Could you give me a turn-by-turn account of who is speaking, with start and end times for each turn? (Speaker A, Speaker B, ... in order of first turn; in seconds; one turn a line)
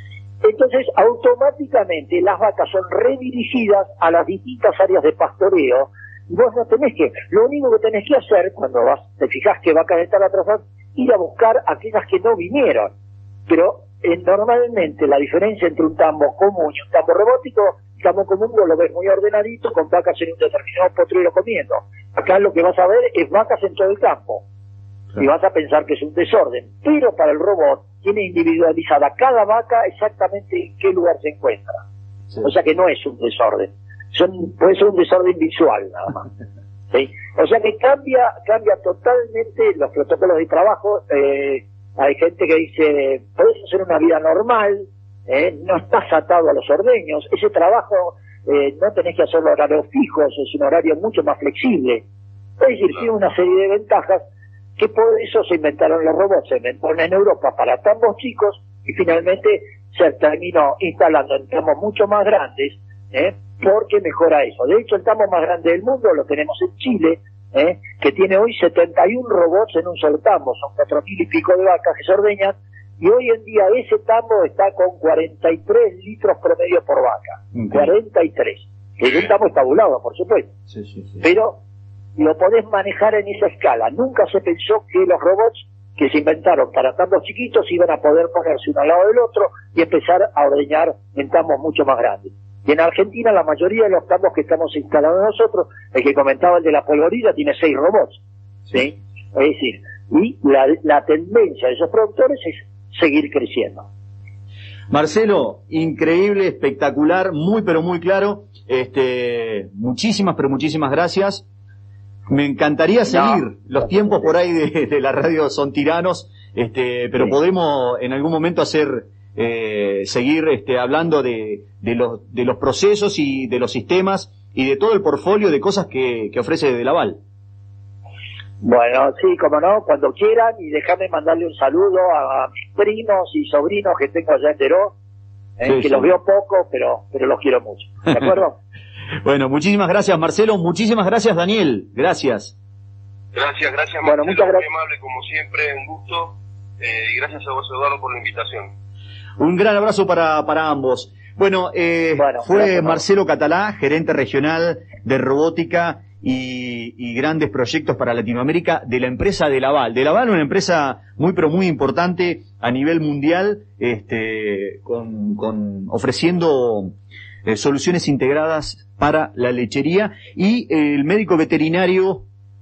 Speaker A: 0.4-12.9
Speaker A: 13.5-24.4
Speaker A: 25.2-31.8
Speaker A: 32.4-36.2
Speaker A: 36.9-52.0
Speaker A: 52.6-54.2
Speaker A: 54.8-80.5
Speaker B: 77.5-77.9
Speaker B: 80.7-81.2
Speaker A: 81.2-81.6
Speaker A: 82.2-98.2
Speaker A: 98.7-103.9
Speaker B: 104.9-111.5
Speaker B: 112.3-127.2
Speaker A: 113.1-113.4
Speaker A: 128.6-134.9
Speaker A: 135.6-138.6
Speaker B: 135.6-136.1
Speaker B: 139.2-142.5
Speaker C: 143.3-148.7
Speaker A: 144.0-144.6
Speaker B: 149.4-172.2
Speaker A: 152.2-153.0